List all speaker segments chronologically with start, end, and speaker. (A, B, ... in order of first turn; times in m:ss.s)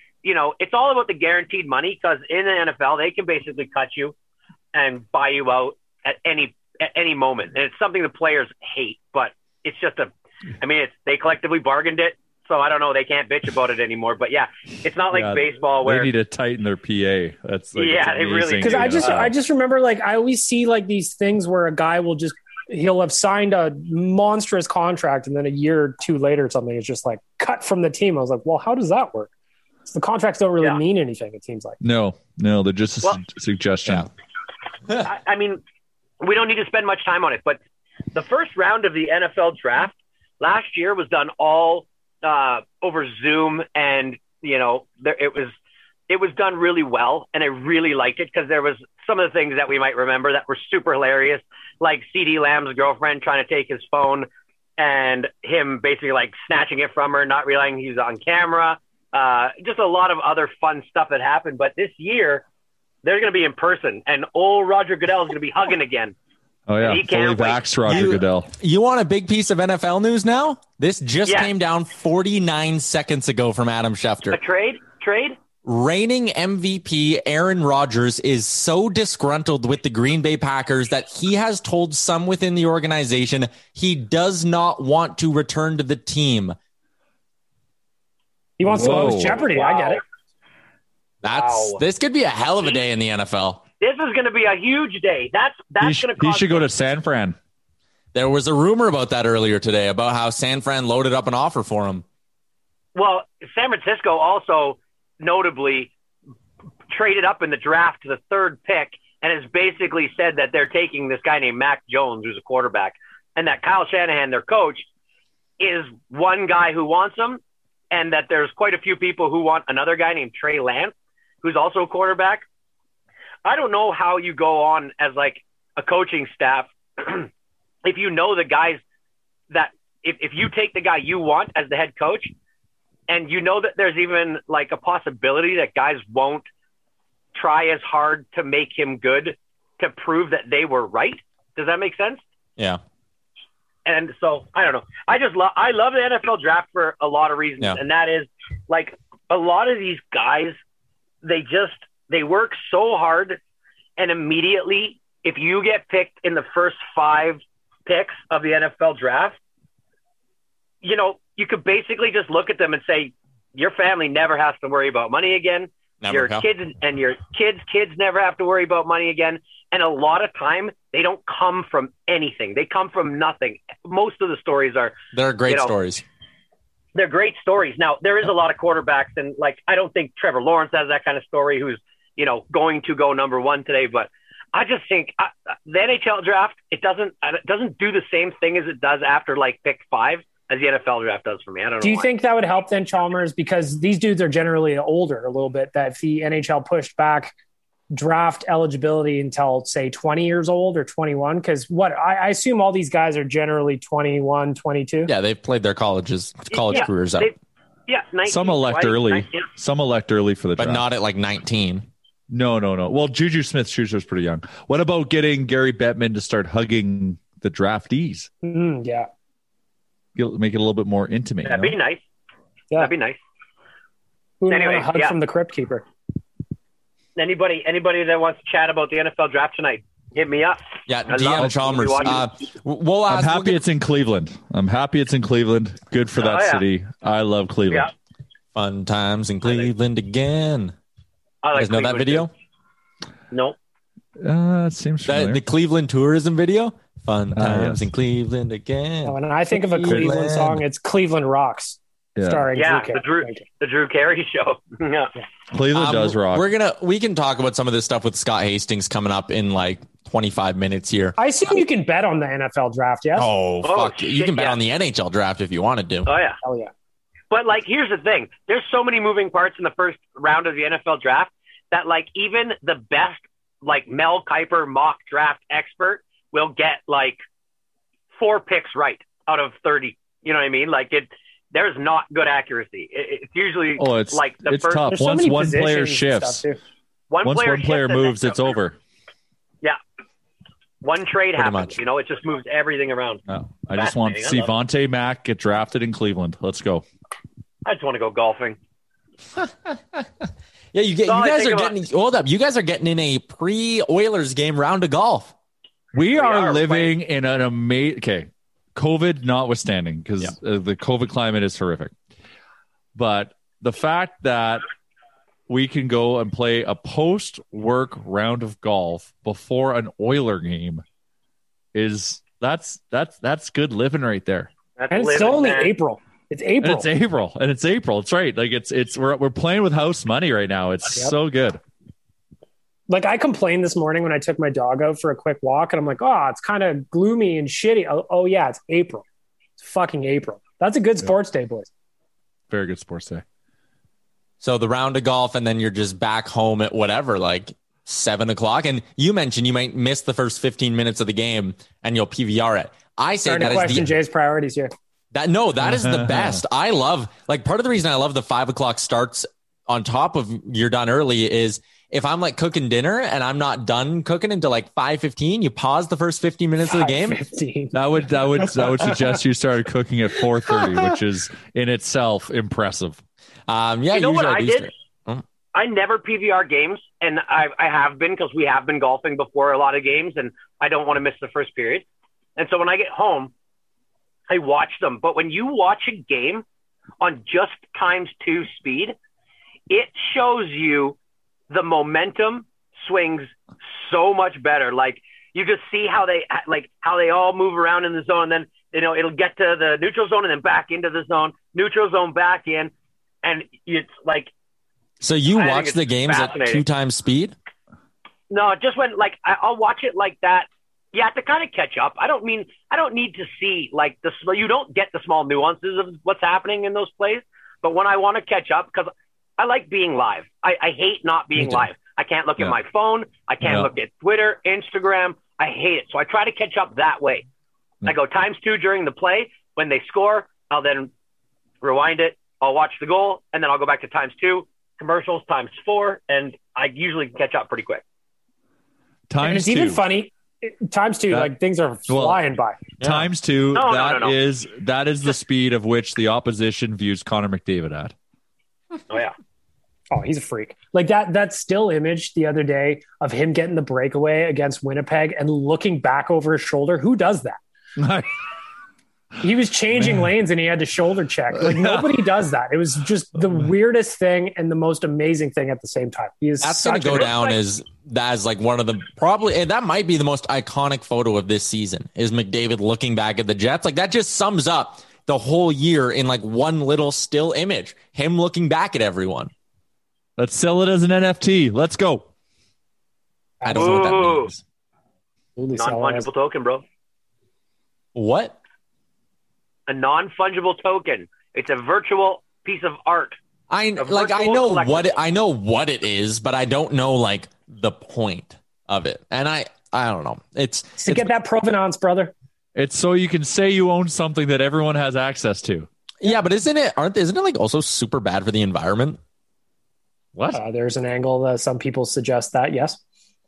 0:00.2-0:04.1 A
0:04.7-0:16.1 A
0:15.1-0:19.3 B
0:17.8-0:19.3 A
0:18.6-0:29.3 C
0:29.8-0:31.8 C
0:31.8-0:34.1 B
0:35.0-0:35.6 A
0:36.2-0:37.6 A
0:38.1-0:45.5 A
0:46.1-0:54.3 A
0:54.8-1:02.4 A
1:03.0-1:06.1 A
1:06.7-1:08.5 B
1:06.8-1:08.1 A
1:07.9-1:14.4 D
1:11.2-1:11.5 A
1:14.3-1:15.4 A
1:15.6-1:26.6 D
1:28.6-1:30.0 C
1:28.6-1:29.5 B
1:29.5-1:30.0 A
1:31.2-1:33.6 D
1:31.4-1:31.7 A
1:33.8-1:36.7 A
1:35.8-1:37.4 B
1:38.1-1:42.0 D
1:42.9-1:45.9 A
1:46.9-1:54.9 A
1:55.6-2:02.4 A
2:03.4-2:07.3 A
2:07.8-2:08.8 A
2:09.5-2:12.3 A
2:13.1-2:16.5 A
2:17.3-2:22.2 A
2:23.8-2:30.6 A
2:31.2-2:33.4 A
2:34.0-2:39.4 A
2:40.8-2:54.9 A
2:46.0-2:46.4 D
2:55.1-2:56.0 D
2:56.9-3:12.1 A
3:11.8-3:17.3 C
3:17.9-3:25.1 C
3:25.0-3:27.3 D
3:26.5-3:27.3 A
3:27.9-3:29.3 A
3:28.2-3:30.8 B
3:30.6-3:31.8 D
3:32.3-3:38.3 B
3:38.4-3:39.1 C
3:40.1-3:41.8 B
3:41.4-3:42.0 A
3:42.8-3:43.2 A
3:44.4-3:45.8 C
3:44.5-3:45.2 A
3:47.2-3:52.2 A
3:50.9-3:53.6 D
3:51.3-3:52.1 B
3:53.1-3:57.9 B
3:56.2-3:56.6 A
3:58.5-4:00.7 D
3:59.4-3:59.7 A
4:01.4-4:02.3 A
4:01.5-4:02.3 D
4:03.3-4:03.6 A
4:04.2-4:05.4 B
4:05.0-4:09.2 D
4:07.3-4:07.9 B
4:09.0-4:13.4 C
4:09.7-4:10.5 D
4:09.8-4:10.6 B
4:12.2-4:12.5 B
4:12.5-4:15.1 A
4:15.5-4:16.5 B
4:15.7-4:21.2 D
4:21.2-4:23.3 C
4:23.2-4:26.1 D
4:23.6-4:24.6 A
4:26.1-4:26.4 A
4:26.4-4:26.7 C
4:27.3-4:37.2 A
4:38.2-4:44.9 A
4:43.8-4:46.4 B
4:44.9-4:46.6 C
4:47.1-4:48.4 A
4:47.2-4:48.8 B
4:50.8-4:53.2 A
4:51.4-4:51.8 D
4:53.3-4:56.8 B
4:53.7-4:54.5 A
4:57.6-4:58.6 A
4:59.4-5:00.0 D
5:00.7-5:05.3 D
5:01.1-5:01.7 A
5:05.9-5:11.9 B
5:06.1-5:06.9 A
5:12.9-5:14.6 B
5:15.5-5:20.8 B
5:21.7-5:24.5 B
5:24.8-5:25.7 A
5:24.9-5:26.9 C
5:26.6-5:31.6 B
5:32.9-5:39.0 C
5:39.6-5:41.7 C
5:42.5-5:43.2 B
5:44.4-5:53.9 D
5:53.2-5:54.7 C
5:55.1-6:07.2 D
5:55.6-5:56.4 B
6:06.6-6:09.1 C
6:07.7-6:13.0 B
6:10.5-6:10.8 C
6:13.5-6:15.2 D
6:13.9-6:14.7 A
6:15.5-6:21.8 A
6:22.4-6:23.3 A
6:24.3-6:26.4 A
6:27.0-6:29.0 A
6:29.7-6:31.0 A
6:31.5-6:42.7 A
6:43.2-6:44.3 A
6:45.0-6:47.3 D
6:45.3-6:46.6 A
6:48.3-7:07.2 A
7:01.3-7:01.7 B
7:03.4-7:03.7 B
7:07.8-7:10.9 A
7:11.6-7:17.8 A
7:19.1-7:19.8 B
7:19.2-7:22.6 C
7:21.9-7:22.2 B
7:22.8-7:23.0 D
7:22.8-7:27.9 B
7:23.5-7:24.2 A
7:28.9-7:29.1 A
7:29.9-7:37.4 C
7:37.8-7:38.1 B
7:39.2-7:47.1 C
7:39.7-7:40.1 B
7:41.3-7:42.1 B
7:43.2-7:43.5 B
7:46.4-7:59.3 D
7:47.1-7:47.3 A
8:00.2-8:02.1 B
8:03.4-8:03.9 C
8:03.4-8:04.4 D
8:03.5-8:04.3 A
8:05.4-8:06.1 C
8:05.6-8:06.6 A
8:07.9-8:08.4 D
8:09.7-8:13.2 A
8:13.5-8:21.1 D
8:13.8-8:14.9 A
8:20.8-8:22.1 C
8:22.5-8:25.7 B
8:26.0-8:29.0 D
8:30.1-8:30.4 B
8:30.3-8:32.8 C